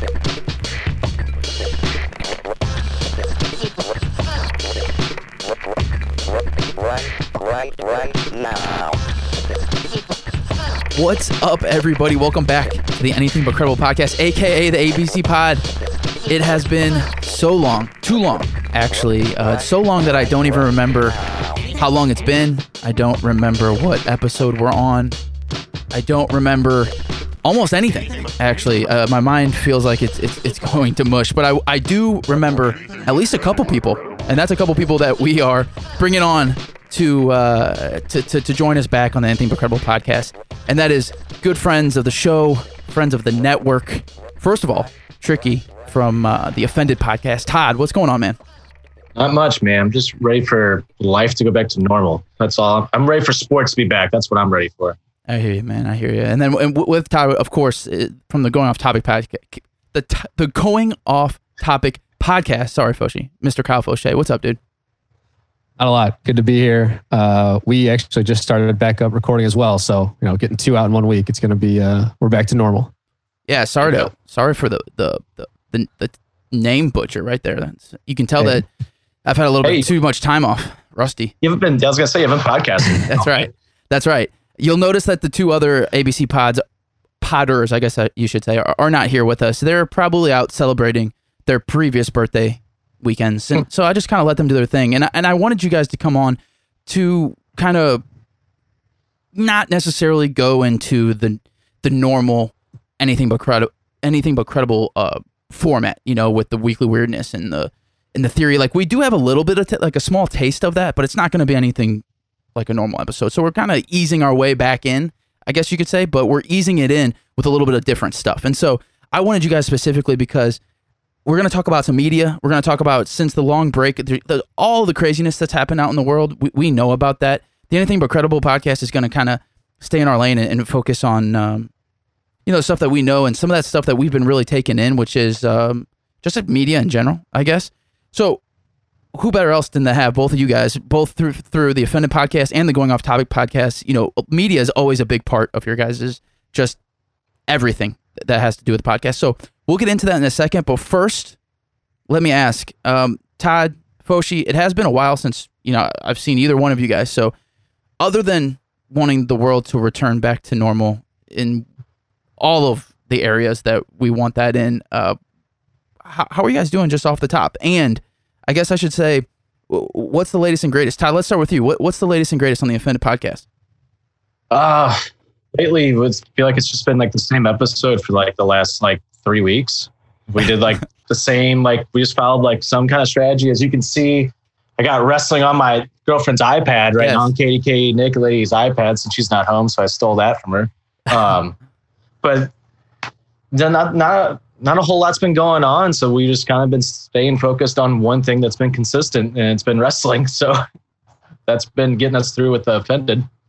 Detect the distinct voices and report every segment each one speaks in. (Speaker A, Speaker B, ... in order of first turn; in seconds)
Speaker A: 10.9-15.7, 16.3-21.2, 21.7-25.2, 25.9-26.9, 27.4-48.4, 55.3-64.6, 73.5-78.7, 79.3-81.3, 83.1-86.6, 87.2-98.0, 99.3-112.0, 112.5-120.6, 121.3-131.7, 132.5-138.4, 139.1-146.8, 147.5-151.4, 152.1-157.3, 158.0-161.7, 162.4-165.2, 166.1-173.5, 187.0-187.3
Speaker B: 49.2-55.0, 73.8-74.1, 79.6-79.9, 81.4-83.5, 174.5-191.6, 192.2-192.5, 193.5-200.6, 201.5-203.3
Speaker C: 65.8-72.9